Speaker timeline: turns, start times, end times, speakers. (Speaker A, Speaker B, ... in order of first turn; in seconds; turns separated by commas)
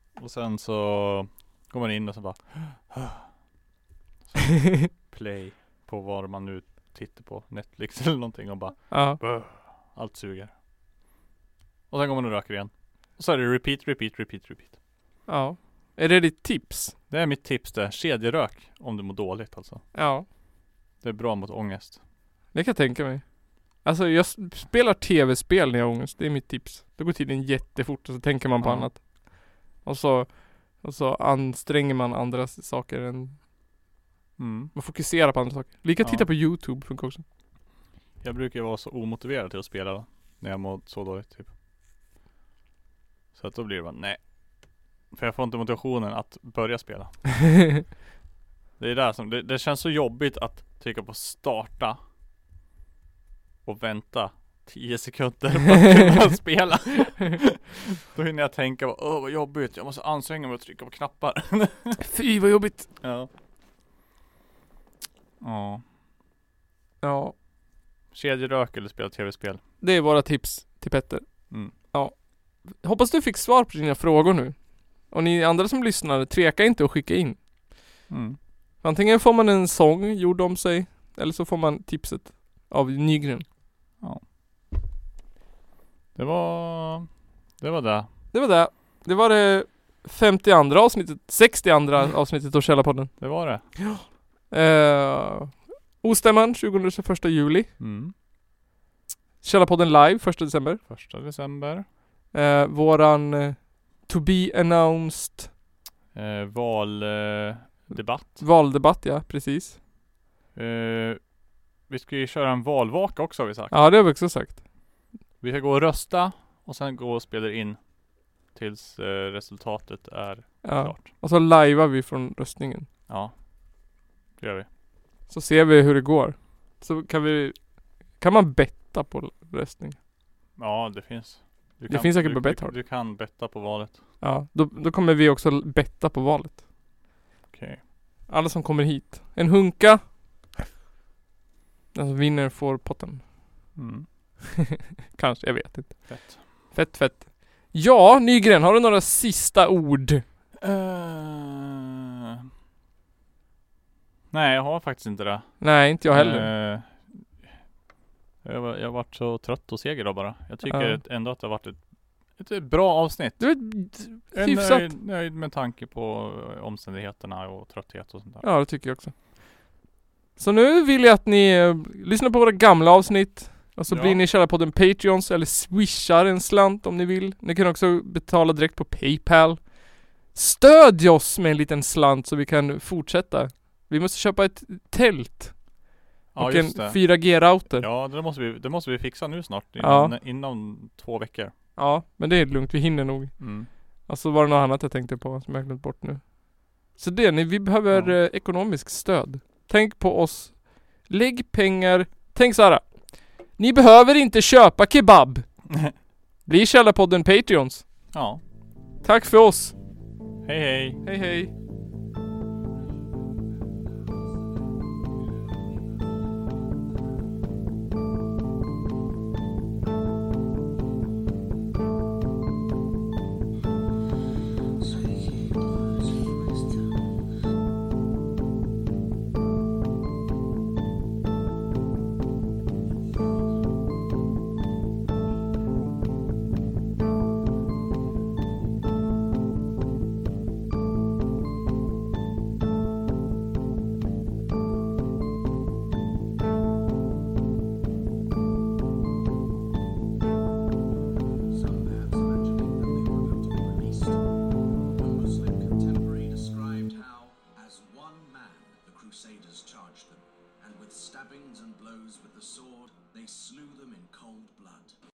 Speaker A: 0.1-3.3, Speaker A: 4.3-10.5, Speaker B: 8.9-9.2, Speaker A: 11.9-14.8, Speaker B: 15.3-16.9, Speaker A: 17.1-19.8, Speaker B: 19.9-20.2, Speaker A: 21.0-22.0, Speaker B: 22.5-23.2, Speaker B: 23.8-33.4, Speaker A: 28.6-28.9, Speaker A: 34.4-34.7, Speaker B: 34.7-37.2, Speaker A: 36.0-36.3, Speaker A: 38.2-41.5, Speaker A: 43.3-44.2, Speaker A: 45.1-47.7, Speaker A: 48.8-52.0, Speaker A: 53.6-62.0, Speaker B: 55.8-56.1, Speaker B: 62.0-62.9, Speaker A: 63.0-63.3, Speaker A: 65.4-65.8, Speaker B: 67.0-67.3, Speaker A: 68.1-69.6, Speaker B: 69.8-71.3, Speaker B: 72.7-74.5, Speaker B: 75.1-77.4, Speaker A: 78.1-78.4, Speaker B: 78.8-83.4, Speaker A: 86.1-87.1, Speaker A: 87.6-88.1, Speaker B: 88.3-97.7, Speaker A: 93.2-93.6, Speaker A: 97.8-98.1, Speaker B: 99.4-100.8, Speaker A: 100.9-101.8, Speaker B: 102.3-105.5, Speaker A: 106.1-108.4, Speaker B: 108.4-109.8, Speaker A: 110.5-111.2, Speaker A: 111.9-113.8, Speaker B: 113.7-114.6, Speaker A: 115.4-117.8, Speaker A: 118.5-121.0, Speaker B: 120.6-122.9, Speaker A: 123.1-123.3, Speaker A: 124.4-124.7, Speaker B: 125.3-127.6, Speaker B: 128.2-130.0, Speaker A: 130.6-134.0, Speaker B: 131.9-132.7, Speaker B: 134.2-136.6, Speaker A: 137.5-137.8, Speaker B: 138.3-140.0, Speaker B: 141.9-143.2, Speaker A: 143.8-144.1, Speaker B: 144.5-150.2, Speaker A: 146.1-146.4, Speaker A: 150.6-152.5, Speaker A: 154.3-157.2, Speaker B: 155.6-156.5, Speaker A: 158.4-161.8, Speaker B: 160.6-161.0, Speaker A: 162.4-163.6, Speaker B: 163.4-164.9, Speaker A: 164.3-168.4, Speaker B: 168.4-169.1, Speaker B: 170.4-179.6, Speaker A: 173.9-174.2, Speaker B: 180.3-185.6, Speaker A: 186.3-191.5, Speaker B: 186.4-187.8, Speaker B: 189.8-190.1, Speaker B: 191.8-193.4, Speaker A: 193.4-193.7, Speaker B: 194.1-196.2, Speaker B: 196.9-202.8, Speaker B: 203.6-205.4, Speaker B: 206.4-207.8, Speaker A: 208.1-208.4, Speaker B: 209.0-209.7, Speaker A: 210.4-211.0, Speaker B: 211.0-211.5, Speaker C: 251.5-254.2, Speaker C: 254.9-264.9